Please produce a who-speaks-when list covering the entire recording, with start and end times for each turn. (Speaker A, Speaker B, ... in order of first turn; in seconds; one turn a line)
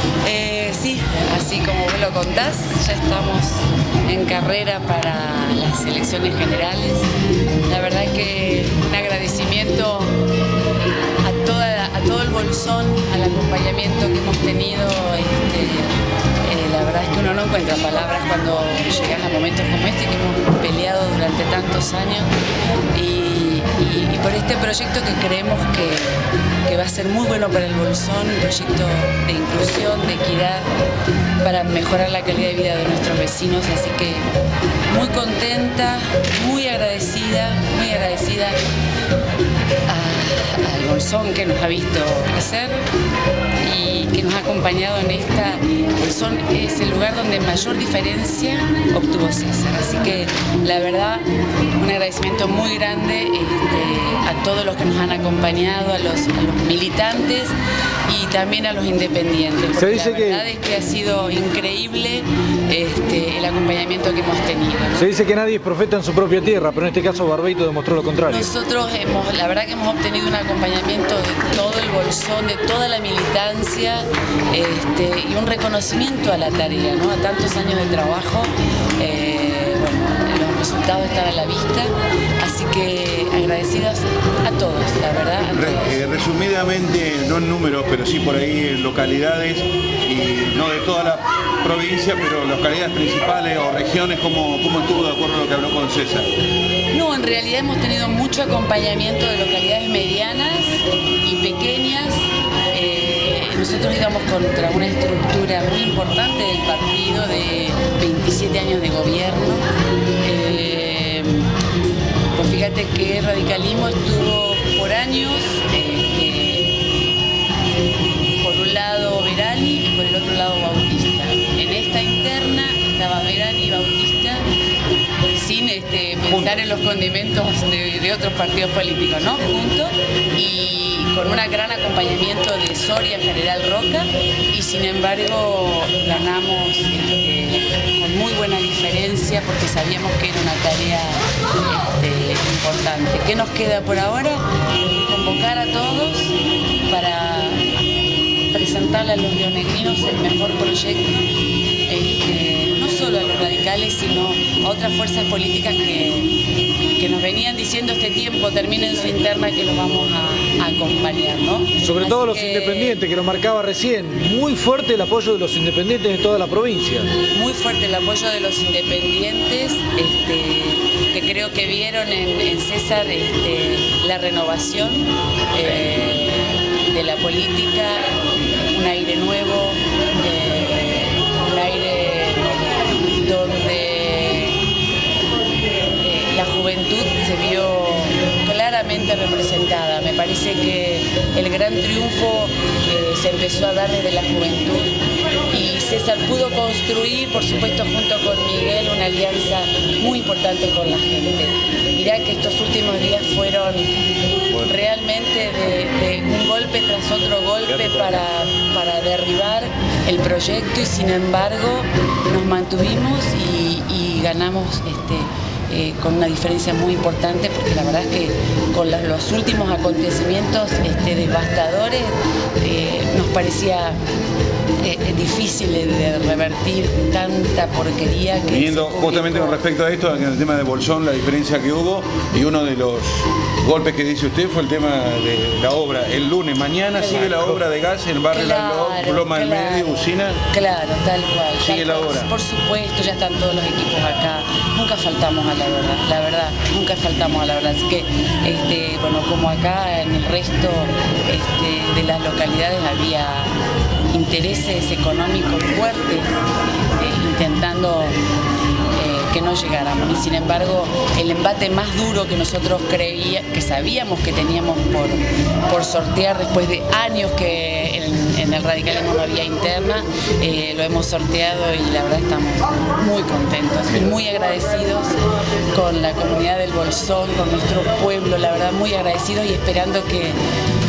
Speaker A: 0.2-7.1
Speaker A: 7.7-10.2
Speaker A: 11.2-22.3
Speaker A: 22.9-26.1
Speaker A: 26.6-30.7
Speaker A: 31.4-34.3
Speaker A: 34.9-38.6
Speaker A: 39.9-42.9
Speaker A: 43.6-51.2
Speaker A: 51.8-57.5
Speaker A: 58.1-65.1
Speaker B: 59.8-60.4
Speaker B: 65.0-68.5
Speaker A: 68.2-86.0
Speaker C: 85.5-96.3
Speaker A: 96.9-109.6
Speaker A: 110.2-111.5
Speaker A: 112.3-116.7
Speaker A: 118.4-124.5
Speaker A: 125.3-144.4
Speaker A: 145.1-146.3
Speaker A: 146.8-147.6
Speaker A: 148.5-151.1
Speaker A: 151.9-156.3
Speaker A: 157.0-163.0
Speaker B: 161.8-167.1
Speaker A: 167.3-178.1
Speaker C: 175.6-175.9
Speaker A: 178.7-184.6
Speaker A: 186.0-194.9
Speaker A: 195.5-203.9
Speaker A: 204.5-224.0
Speaker C: 207.7-208.2
Speaker A: 224.8-229.6
Speaker C: 228.5-240.4
Speaker A: 236.9-237.5
Speaker A: 238.3-253.6
Speaker C: 241.6-242.3
Speaker A: 254.1-256.3
Speaker A: 256.9-258.2
Speaker A: 258.9-275.2
Speaker A: 275.7-280.4